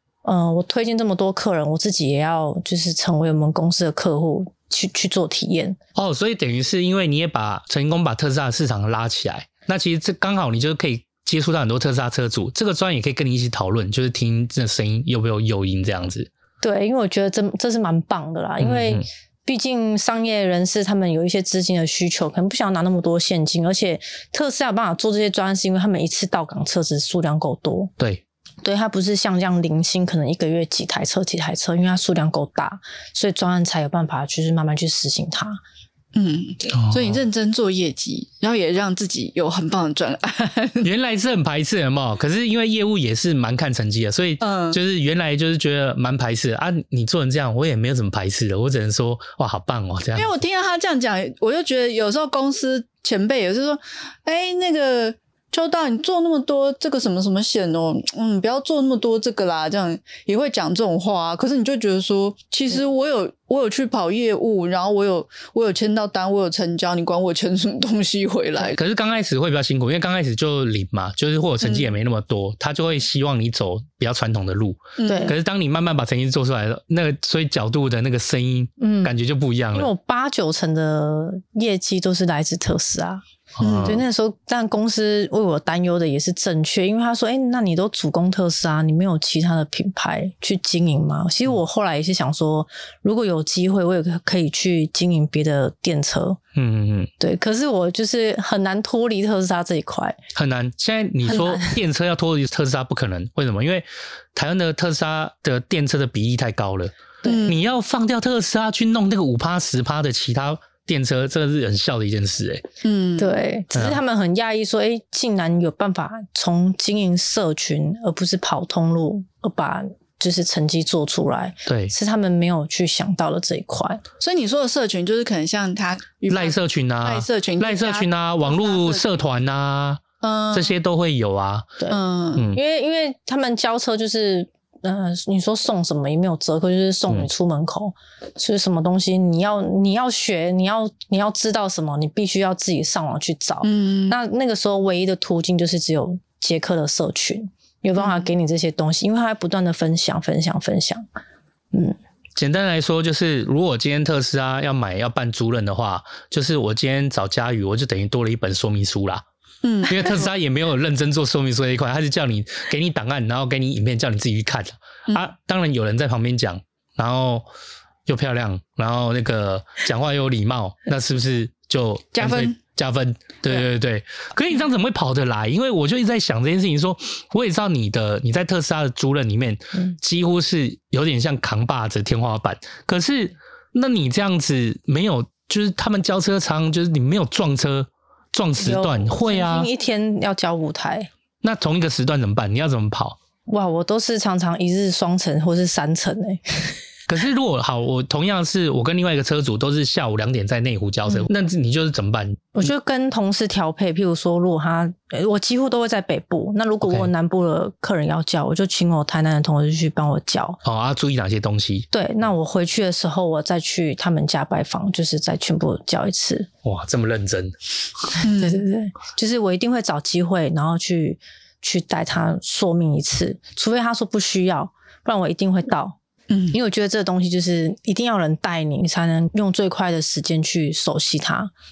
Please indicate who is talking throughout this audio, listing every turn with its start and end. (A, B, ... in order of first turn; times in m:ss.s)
0:00.2-0:05.8 A
0:06.0-0:16.3 B
0:16.6-0:27.9 A
0:18.6-0:19.0 B
0:28.6-0:35.6 A
0:36.1-0:40.9 C
0:36.7-0:37.2 B
0:40.8-0:50.4 B
0:44.4-0:44.8 C
0:50.1-1:08.8 C
1:08.7-1:19.9 B
1:11.6-1:11.9 C
1:15.0-1:15.3 C
1:15.0-1:15.3 A
1:18.8-1:19.1 A
1:19.7-1:23.2 A
1:23.6-1:24.0 B
1:23.6-1:24.0 C
1:23.8-1:36.4 A
1:36.5-1:37.1 B
1:37.2-1:40.2 A
1:40.3-1:52.6 B
1:41.3-1:41.7 A
1:47.2-1:47.5 A
1:47.2-1:47.6 C
1:52.8-1:53.3 C
1:53.2-2:04.0 A
1:53.7-1:54.0 B
2:01.6-2:01.9 B
2:04.2-2:09.2 C
2:06.3-2:11.8 B
2:10.2-2:10.7 C
2:11.9-2:12.5 C
2:12.5-2:31.0 A
2:23.6-2:24.2 C
2:28.0-2:28.3 C
2:32.4-2:39.2 B
2:39.6-2:40.2 C
2:39.8-2:47.4 B
2:48.0-3:09.7 B
2:52.1-2:52.6 C
3:08.6-3:11.1 A
3:11.4-3:13.2 B
3:13.5-3:16.7 A
3:17.1-3:22.6 B
3:22.5-3:30.6 A
3:26.8-3:27.1 B
3:30.6-3:31.9 B
3:31.9-3:36.5 A
3:36.6-3:37.5 B
3:38.2-3:38.6 C
3:38.2-3:46.0 A
3:46.3-3:46.6 C
3:46.5-3:51.5 A